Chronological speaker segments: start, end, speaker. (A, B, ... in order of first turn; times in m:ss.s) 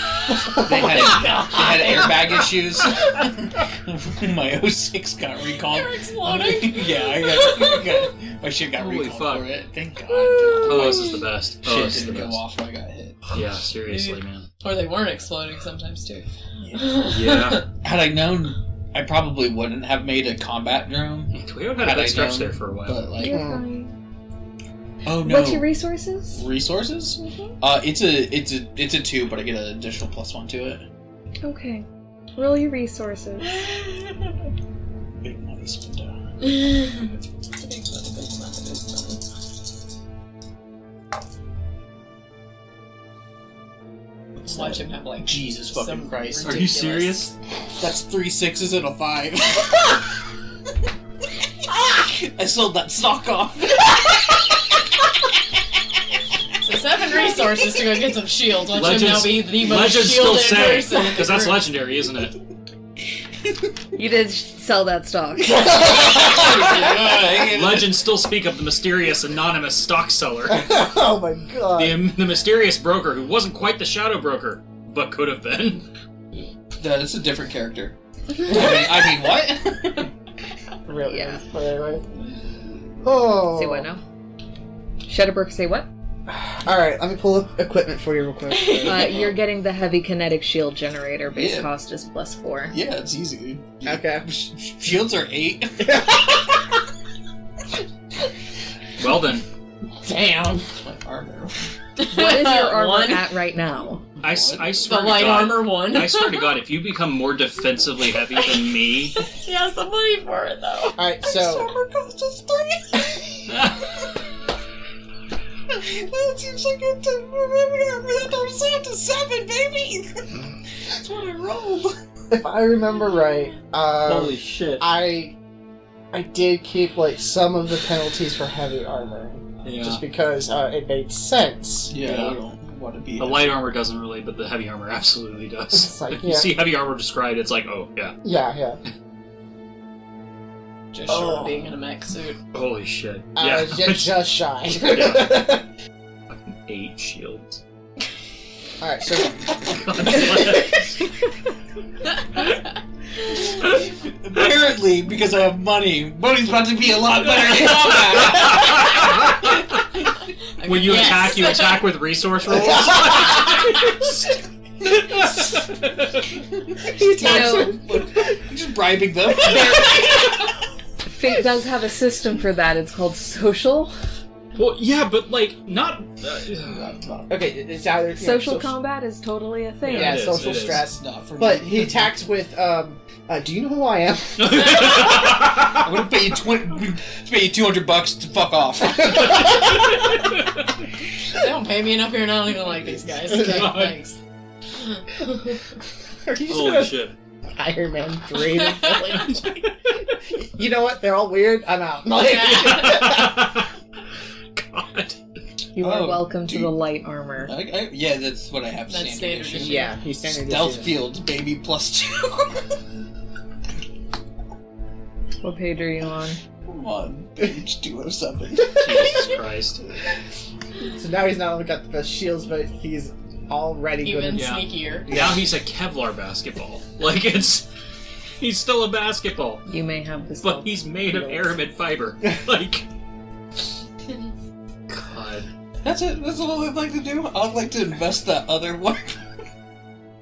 0:00.4-0:13.3 A
0:00.5-0:02.0 B
0:05.6-0:08.0 C
0:08.7-0:09.5 D
0:10.1-0:11.2 C
0:10.6-0:12.4 D
0:13.3-0:14.5 D
0:13.9-0:17.6 C
0:16.6-0:17.0 A
0:17.1-0:17.6 D
0:17.7-0:23.5 A
0:21.3-0:23.0 D
0:23.2-0:24.0 E
0:23.2-0:23.6 B
0:25.0-0:25.7 A
0:25.2-0:26.4 E
0:26.3-0:30.8 A
0:31.4-0:33.6 E
0:33.6-0:34.1 C
0:35.2-0:36.2 A
0:36.4-0:39.2 C
0:44.4-0:47.3 C
0:44.5-0:47.2 A
0:46.4-0:47.3 D
0:47.8-0:50.0 A
0:51.6-0:54.6 A
0:56.6-1:01.6 C
0:58.7-1:02.4 D
1:03.9-1:06.0 E
1:05.5-1:08.0 A
1:06.3-1:06.9 C
1:07.4-1:10.8 D
1:10.5-1:12.1 B
1:11.7-1:15.8 D
1:16.8-1:20.1 A
1:20.8-1:22.0 B
1:21.1-1:21.4 E
1:23.0-1:23.9 B
1:23.5-1:24.0 E
1:25.0-1:25.9 E
1:26.3-1:29.2 B
1:28.5-1:29.2 C
1:28.8-1:32.8 E
1:31.3-1:31.7 A
1:32.7-1:36.5 A
1:33.8-1:34.3 B
1:35.8-1:36.3 B
1:39.0-1:39.4 D
1:40.0-1:40.7 B
1:40.8-1:41.7 A
1:42.0-1:43.3 C
1:42.0-1:44.0 E
1:44.2-1:45.0 A
1:44.2-1:49.2 D
1:44.8-1:46.6 C
1:49.2-1:51.0 C
1:51.0-1:51.7 B
1:51.3-1:53.0 A
1:53.5-1:53.8 D
1:55.7-2:00.3 A
2:00.9-2:01.9 A
2:02.3-2:05.4 B
2:04.0-2:04.9 D
2:06.1-2:12.0 B
2:09.6-2:10.0 D
2:11.9-2:13.7 A
2:12.0-2:12.4 D
2:13.2-2:18.2 D
2:15.7-2:16.6 B
2:18.2-2:18.8 B
2:21.0-2:21.5 B
2:21.0-2:22.4 C
2:22.5-2:24.2 D
2:23.3-2:25.6 B
2:24.8-2:25.6 D
2:26.3-2:27.6 D
2:28.8-2:30.8 B
2:29.5-2:31.0 D
2:33.3-2:39.5 A
2:37.9-2:39.0 D
2:40.6-2:41.9 C
2:40.6-2:46.2 D
2:46.7-2:50.4 A
2:46.9-2:47.8 E
2:47.0-2:47.8 B
2:49.4-2:50.2 E
2:51.1-2:53.9 E
2:54.6-2:56.9 D
2:56.7-2:57.3 A
2:57.3-2:58.7 B
2:58.2-3:00.2 E
2:59.8-3:04.7 B
2:59.9-3:00.9 D
3:00.3-3:02.1 A
3:04.4-3:05.8 D
3:04.7-3:09.9 A
3:11.3-3:14.2 C
3:13.3-3:14.0 D
3:14.8-3:15.6 C
3:16.2-3:19.6 B
3:16.4-3:17.1 D
3:19.2-3:19.7 D
3:20.3-3:23.6 B
3:22.2-3:22.7 C
3:22.5-3:23.7 D
3:24.6-3:25.2 D
3:25.7-3:27.5 E
3:25.8-3:26.7 A
3:27.4-3:32.7 A
3:28.9-3:29.9 C
3:29.6-3:31.1 B
3:35.4-3:36.4 E
3:36.6-3:39.3 A
3:38.7-3:39.8 D
3:40.8-3:44.5 B
3:44.0-3:45.2 C
3:44.3-3:47.7 D
3:45.1-3:45.5 B
3:48.4-3:49.6 D
3:49.7-3:51.6 E
3:50.4-3:52.9 D
3:54.9-3:55.5 D
3:55.8-3:59.2 A